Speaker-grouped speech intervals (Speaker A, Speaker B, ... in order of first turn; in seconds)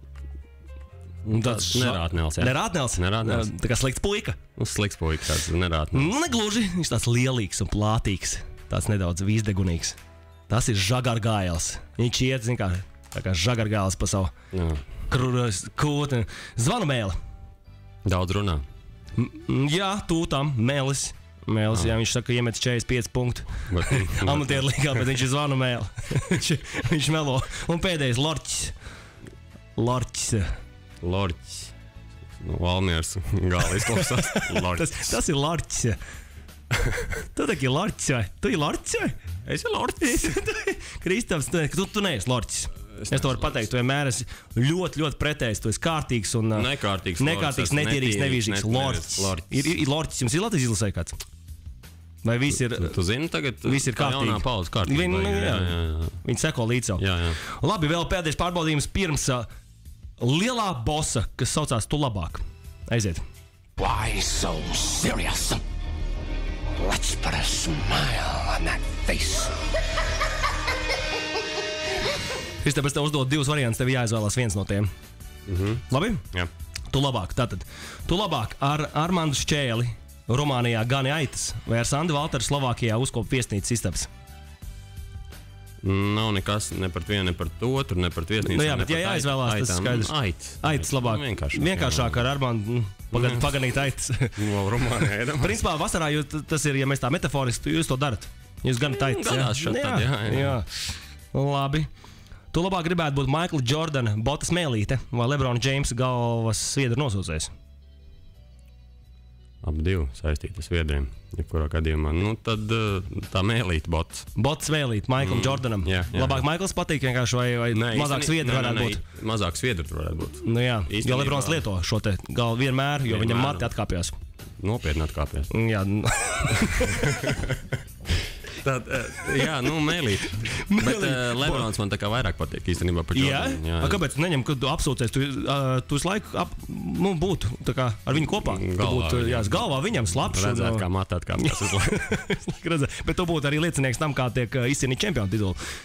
Speaker A: 1.2-3.5, 4.6-6.1, 14.5-14.8, 18.1-18.6, 23.7-25.1, 31.0-31.7, 32.3-35.2, 39.5-40.4, 42.9-43.6, 46.5-49.7, 52.7-56.2, 57.0-57.4, 75.5-76.5, 85.8-92.2, 93.1-93.8, 94.4-95.6, 98.8-100.6, 109.6-114.3, 115.2-116.4, 117.7-121.7, 123.1-123.7, 124.6-125.5, 126.6-127.7, 128.5-134.0, 138.2-142.1
Speaker B: 1.3-4.4, 5.9-10.0, 10.5-14.3, 15.1-17.1, 19.2-28.7, 29.8-30.5, 33.8-36.0, 37.3-39.1, 40.0-46.7, 47.2-51.2, 52.2-53.0, 53.6-59.5, 60.2-63.2, 72.6-74.9, 75.9-76.2, 76.9-84.1, 88.4-94.4, 95.4-101.9, 102.5-107.5, 114.4-119.0, 120.4-124.2, 125.5-127.0, 130.4-131.7, 133.1-145.6
Speaker C: 63.8-65.6, 66.8-69.5